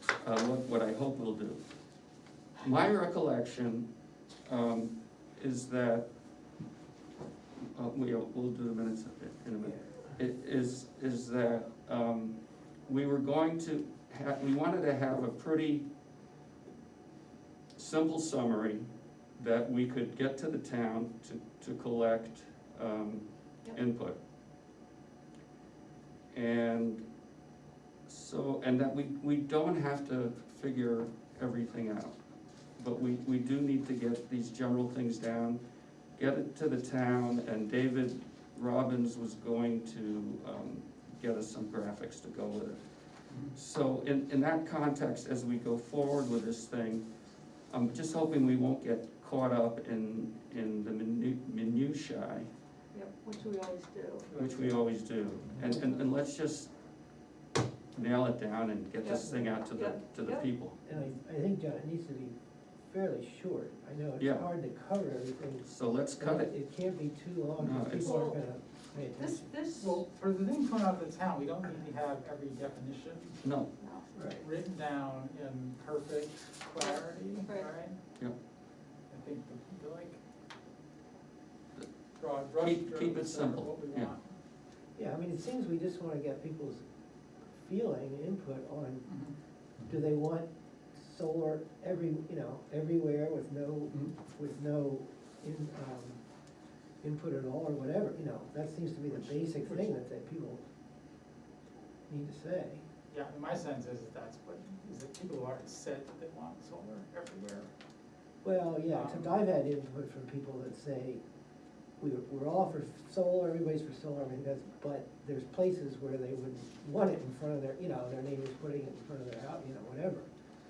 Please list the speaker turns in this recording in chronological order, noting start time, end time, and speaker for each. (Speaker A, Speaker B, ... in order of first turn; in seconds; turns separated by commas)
Speaker A: 0.2-1.7, Speaker A: 2.6-3.9, Speaker A: 4.4-6.0, Speaker A: 7.6-15.9, Speaker A: 17.7-24.2, Speaker A: 26.3-27.1, Speaker A: 28.1-32.1, Speaker A: 32.8-35.6, Speaker A: 36.1-42.8, Speaker A: 43.5-47.0, Speaker A: 47.7-52.5, Speaker B: 52.9-54.3, Speaker C: 54.3-54.8, Speaker A: 54.3-56.7, Speaker A: 57.9-60.8, Speaker B: 59.0-60.5, Speaker D: 60.8-62.3, Speaker D: 62.9-65.7, Speaker A: 64.2-64.5, Speaker A: 65.6-66.5, Speaker D: 66.2-69.5, Speaker A: 67.6-68.2, Speaker B: 68.0-68.4, Speaker C: 68.0-68.3, Speaker B: 69.2-70.0, Speaker C: 69.8-73.4, Speaker A: 73.4-73.7, Speaker B: 73.8-74.0, Speaker D: 74.1-74.4, Speaker C: 74.4-78.0, Speaker B: 77.4-77.7, Speaker C: 79.1-80.2, Speaker C: 82.2-84.3, Speaker A: 82.6-84.1, Speaker D: 85.0-86.8, Speaker D: 87.5-89.1, Speaker C: 89.1-89.3, Speaker D: 89.9-96.2, Speaker D: 97.0-100.6, Speaker C: 99.1-99.8, Speaker D: 102.1-102.8, Speaker C: 103.1-107.7, Speaker D: 108.4-111.2, Speaker C: 108.9-109.3, Speaker D: 112.0-120.3